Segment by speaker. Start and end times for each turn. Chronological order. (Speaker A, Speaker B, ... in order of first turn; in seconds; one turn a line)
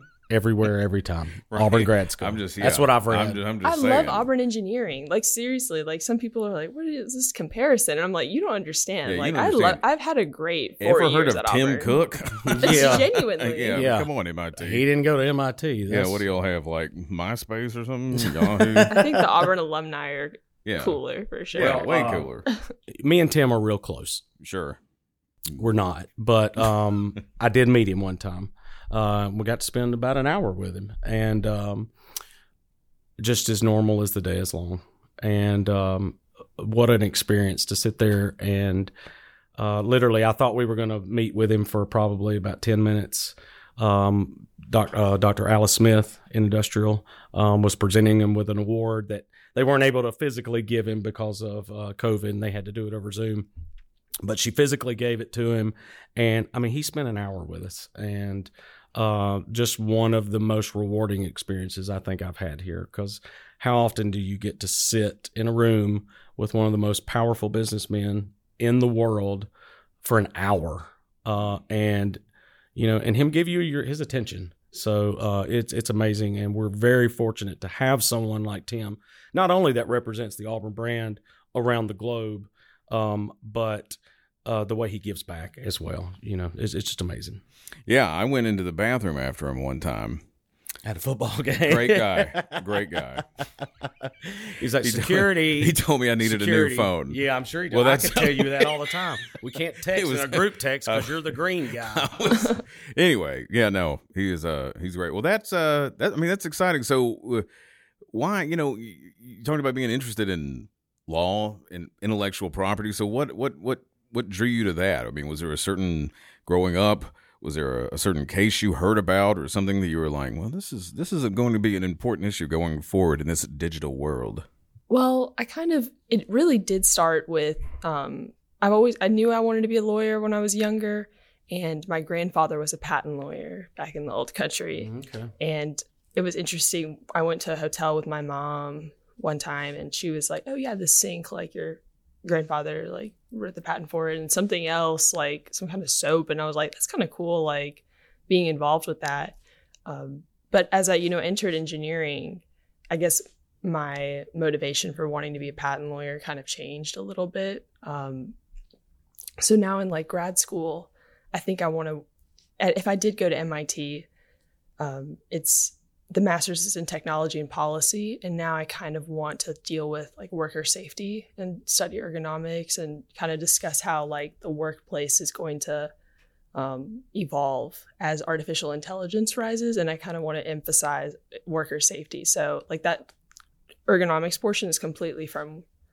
Speaker A: 0.3-3.4
Speaker B: 1.5-4.2
Speaker C: 3.6-12.0
Speaker B: 9.0-9.8
Speaker B: 10.8-14.8
Speaker A: 12.5-13.1
Speaker C: 12.6-13.9
Speaker A: 13.7-16.2
Speaker B: 15.9-19.0
Speaker A: 18.1-19.2
Speaker C: 18.9-21.9
Speaker B: 20.6-21.0
Speaker B: 21.5-22.5
Speaker A: 21.6-22.3
Speaker A: 23.0-24.2
Speaker B: 24.4-24.8
Speaker A: 25.6-31.9
Speaker A: 33.2-38.9
Speaker A: 39.6-53.5
Speaker A: 54.2-69.5
Speaker A: 70.0-72.2
Speaker A: 72.8-87.4
Speaker B: 87.9-90.2
Speaker A: 90.8-92.7
Speaker B: 91.7-93.2
Speaker A: 93.6-102.1
Speaker B: 94.8-99.3
Speaker B: 99.8-107.5
Speaker B: 108.1-124.4
Speaker C: 124.9-158.3
Speaker A: 134.8-135.3
Speaker C: 159.4-162.0
Speaker C: 162.6-164.1
Speaker C: 164.8-175.9
Speaker C: 176.5-183.1
Speaker C: 183.9-185.6